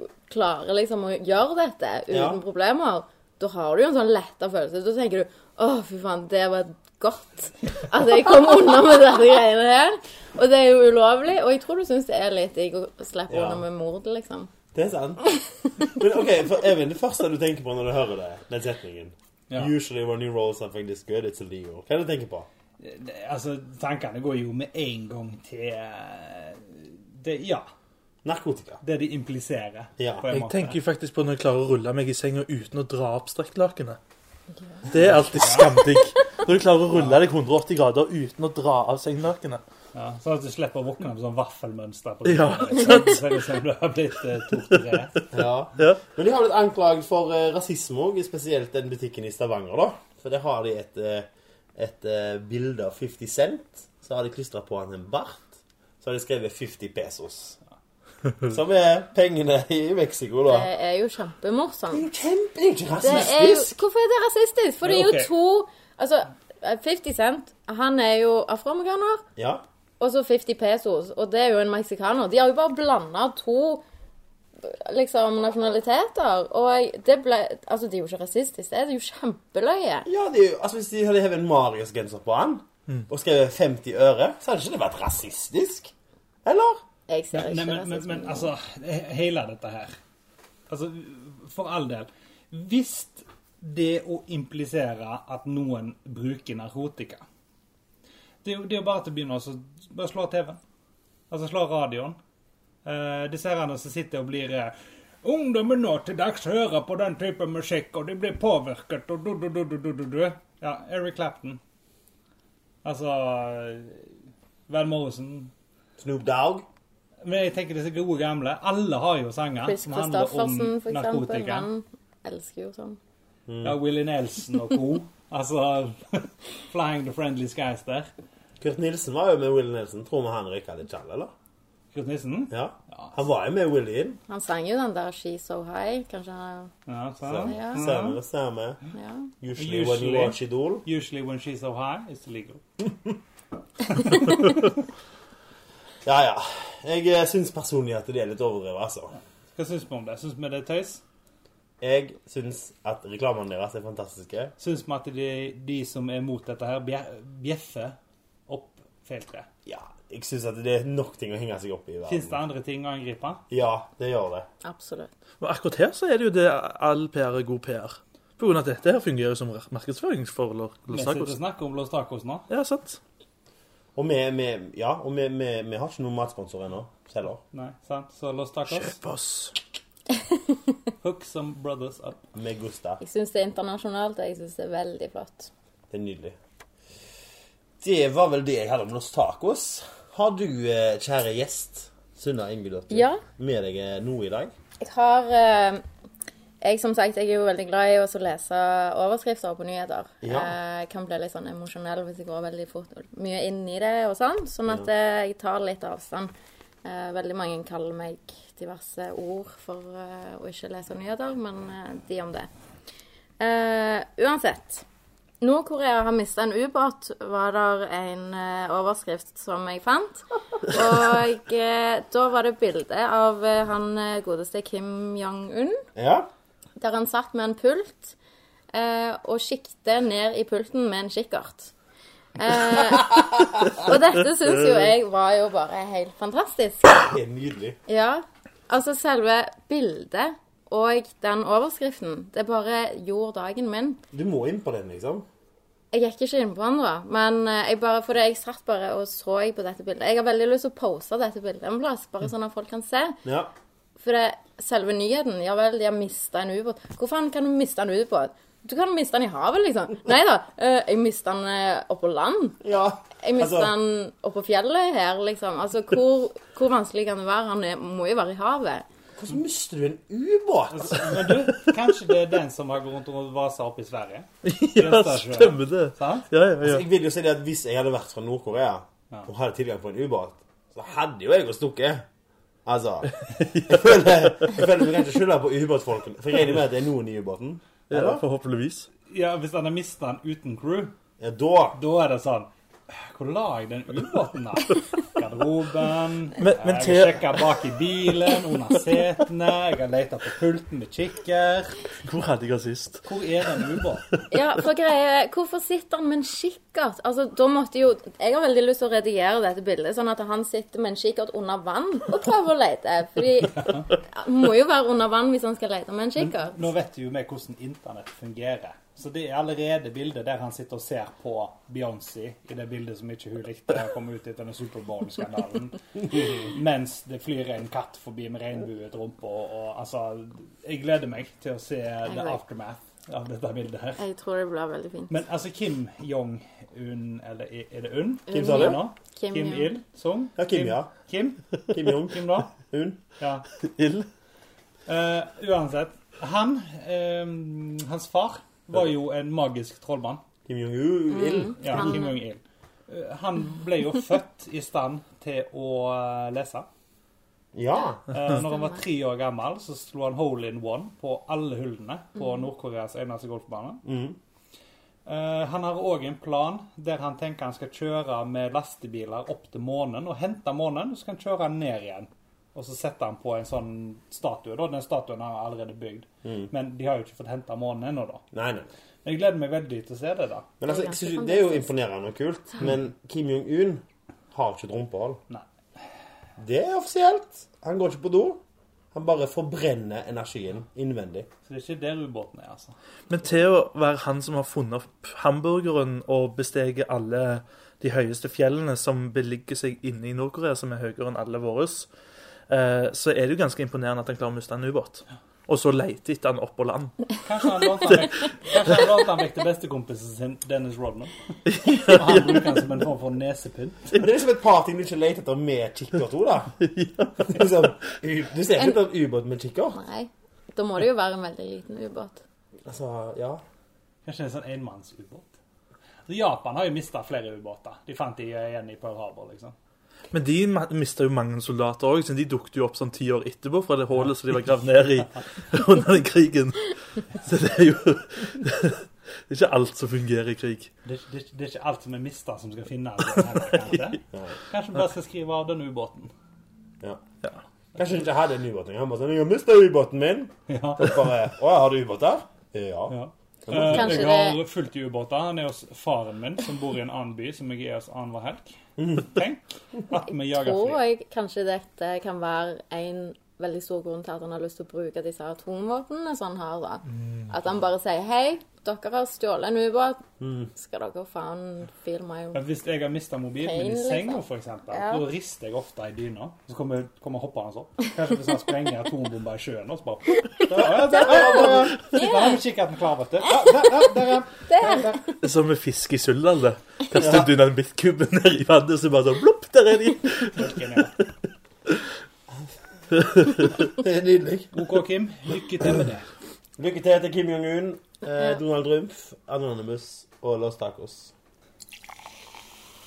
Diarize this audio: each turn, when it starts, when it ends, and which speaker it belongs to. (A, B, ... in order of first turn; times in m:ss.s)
0:00.3-0:14.5 A
0:02.1-0:02.4 B
0:13.3-0:13.6 B
0:14.7-0:15.3 B
0:15.8-0:22.5 B
0:22.8-0:27.7 C
0:28.2-0:28.8 B
0:28.8-0:30.8 C
0:30.0-0:30.2 B
0:30.3-0:34.0 D
0:34.9-0:39.6 D
0:35.0-0:35.7 C
0:39.9-0:45.2 C
0:42.2-0:43.2 D
0:45.3-0:57.6 B
0:58.4-1:00.7 B
1:00.5-1:02.0 A
1:01.9-1:03.8 B
1:03.0-1:09.2 A
1:04.8-1:05.3 C
1:09.4-1:09.6 B
1:10.0-1:13.8 A
1:14.6-1:20.1 A
1:20.0-1:25.9 B
1:26.4-1:26.8 B
1:27.1-1:28.5 A
1:27.3-1:30.0 C
1:30.7-1:37.2 C
1:38.4-1:40.6 C
1:41.3-1:42.2 C
1:42.8-1:51.6 C
1:52.8-1:54.1 C
1:54.7-1:55.5 C
1:56.0-1:56.7 B
1:57.2-2:01.7 C
1:59.6-2:03.0 A
2:03.5-2:03.8 B
2:03.6-2:08.1 C
2:08.6-2:11.3 B
2:11.9-2:13.1 C
2:12.5-2:14.2 B
2:14.3-2:16.7 A
2:16.9-2:18.2 C
2:17.2-2:18.8 B
2:17.4-2:17.9 A
2:18.9-2:19.3 A
2:19.4-2:20.8 B
2:19.5-2:22.6 C
2:22.8-2:23.1 B
2:26.0-2:29.1 B
2:29.5-2:31.0 C
2:31.8-2:34.5 B
2:34.6-2:38.0 C
2:38.5-2:39.5 C
2:39.6-2:42.4 B
2:42.0-2:43.4 C
2:43.5-2:44.5 B
2:44.6-2:45.1 A
2:45.4-2:51.4 D
2:50.9-2:52.5 C
2:52.5-2:53.0 D
2:53.9-2:57.4 B
2:57.5-2:59.0 C
2:58.7-2:59.6 D
3:01.0-3:02.2 C
3:02.3-3:03.0 B
3:03.0-3:05.5 A
3:05.9-3:06.4 B
3:07.8-3:14.5 B
3:12.9-3:13.2 A
3:14.8-3:15.8 A
3:16.6-3:26.3 A
3:20.2-3:20.5 B
3:26.8-3:32.5 A
3:33.4-3:34.8 A
3:35.4-3:45.8 A
3:46.0-3:46.3 B
3:46.8-3:48.1 A
3:48.7-3:51.7 A
3:52.4-3:57.0 A
3:53.2-3:53.7 B
3:56.9-3:57.8 B
3:57.9-4:04.0 A
4:04.1-4:05.3 B
4:05.9-4:13.2 A
4:13.2-4:13.5 B
4:14.0-4:22.6 A
4:22.6-4:23.7 B
4:23.2-4:28.8 A
4:29.2-4:31.4 B
4:30.7-4:36.3 C
4:34.4-4:36.8 D
4:36.6-4:42.0 B
4:42.6-4:48.2 B
4:43.4-4:43.8 D
4:47.9-4:48.9 D
4:49.1-4:50.9 C
4:51.2-4:51.8 B
4:51.7-5:01.8 C
4:56.4-4:57.4 D
5:02.0-5:03.0 D
5:03.0-5:04.1 C
5:04.3-5:16.6 A
5:13.6-5:13.9 C
5:16.2-5:34.0 C
5:32.1-5:32.4 A
5:34.0-5:35.1 A
5:35.1-5:42.5 C
5:38.3-5:39.7 A
5:38.3-5:38.8 B
5:40.4-5:40.9 B
5:41.7-5:43.0 B
5:43.2-5:43.5 C
5:43.6-5:44.1 D
5:44.9-5:50.2 C
5:50.4-5:51.9 B
5:51.1-5:52.2 A
5:51.6-5:56.7 C
5:57.5-5:58.0 B
5:58.1-6:03.8 C
6:03.8-6:04.2 B
6:05.0-6:18.2 C
6:18.3-6:18.7 B
6:19.0-6:20.5 C
6:20.6-6:25.2 B
6:20.6-6:21.7 A
6:26.4-6:28.4 B
6:28.9-6:31.3 B
6:31.4-6:32.8 C
6:33.1-6:41.9 D
6:42.5-6:47.0 D
6:47.2-6:54.0 C
6:51.5-6:52.4 D
6:53.9-6:56.6 B
6:56.6-6:57.3 D
6:57.2-6:59.8 B
6:59.7-7:02.2 A
7:02.6-7:03.4 B
7:04.0-7:05.3 C
7:06.1-7:09.5 C
7:10.1-7:20.7 D
7:20.8-7:26.1 C
7:24.1-7:24.4 B
7:27.7-7:32.9 B
7:30.5-7:31.1 C
7:32.9-7:40.8 C
7:33.5-7:34.1 B
7:33.6-7:34.4 A
7:38.8-7:39.1 B
7:40.2-7:52.4 A
7:50.2-7:50.5 B
7:52.3-8:05.0 C
7:53.4-7:55.0 A
8:00.5-8:01.8 B
8:00.9-8:02.4 A
8:04.5-8:05.2 A
8:05.2-8:10.5 D
8:07.0-8:07.3 B
8:10.3-8:10.9 C
8:13.1-8:13.5 D
8:13.6-8:14.5 B
8:14.5-8:16.1 C
8:16.6-8:21.1 B